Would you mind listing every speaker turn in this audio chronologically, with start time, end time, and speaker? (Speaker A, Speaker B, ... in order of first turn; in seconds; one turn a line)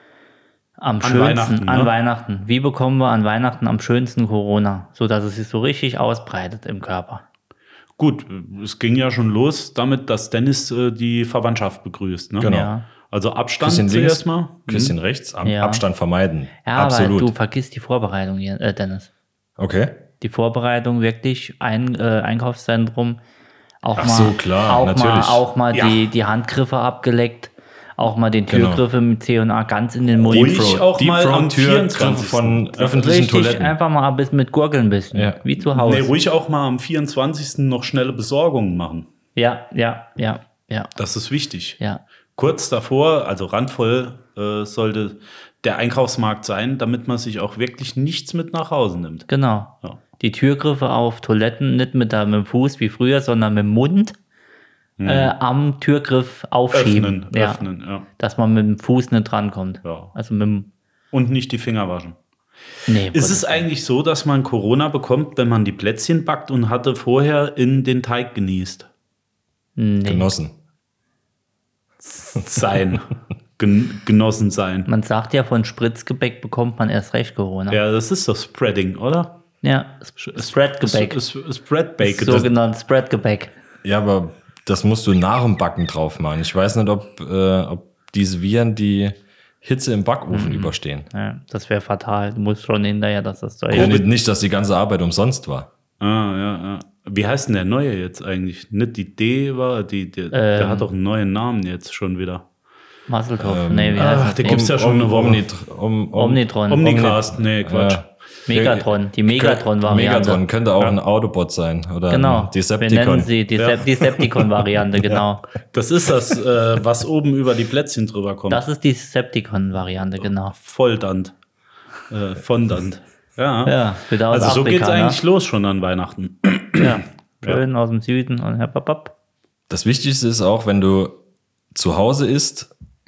Speaker A: 0.8-7.2
Speaker B: 1.0-1.9
Speaker B: 8.0-15.0
Speaker C: 12.4-12.7
Speaker A: 12.4-12.9
Speaker C: 13.6-17.3
Speaker A: 15.4-15.8
Speaker A: 16.6-19.1
Speaker C: 19.6-20.0
Speaker A: 20.2-23.2
Speaker A: 23.8-30.7
Speaker C: 24.0-25.4
Speaker B: 25.7-26.1
Speaker C: 28.5-28.8
Speaker C: 30.2-33.8
Speaker B: 30.3-32.7
Speaker A: 32.8-36.1
Speaker C: 35.1-35.4
Speaker B: 35.7-39.1
Speaker A: 39.4-40.9
Speaker B: 41.0-41.8
Speaker B: 42.4-49.3
Speaker A: 49.3-54.2
Speaker B: 55.0-55.3
Speaker A: 55.1-57.6
Speaker B: 56.7-58.1
Speaker A: 58.2-60.7
Speaker B: 59.8-60.1
Speaker B: 61.1-62.2
Speaker A: 62.9-63.6
Speaker B: 63.1-68.9
Speaker A: 69.8-70.3
Speaker C: 70.0-70.5
Speaker B: 72.0-74.9
Speaker A: 74.9-77.8
Speaker B: 77.7-79.4
Speaker A: 79.6-81.2
Speaker B: 80.2-82.5
Speaker A: 82.0-83.5
Speaker C: 83.8-91.1
Speaker A: 90.3-94.0
Speaker B: 93.7-94.1
Speaker C: 93.7-95.7
Speaker B: 96.0-102.5
Speaker A: 100.3-100.9
Speaker A: 103.1-104.6
Speaker C: 103.4-113.3
Speaker B: 104.0-105.5
Speaker A: 106.2-106.9
Speaker B: 106.7-108.1
Speaker A: 108.5-110.4
Speaker A: 112.1-115.5
Speaker C: 114.2-114.5
Speaker B: 115.7-118.6
Speaker A: 118.5-120.5
Speaker B: 120.2-121.3
Speaker B: 122.1-127.6
Speaker A: 123.7-125.2
Speaker A: 126.8-129.1
Speaker C: 129.7-131.2
Speaker C: 131.7-132.7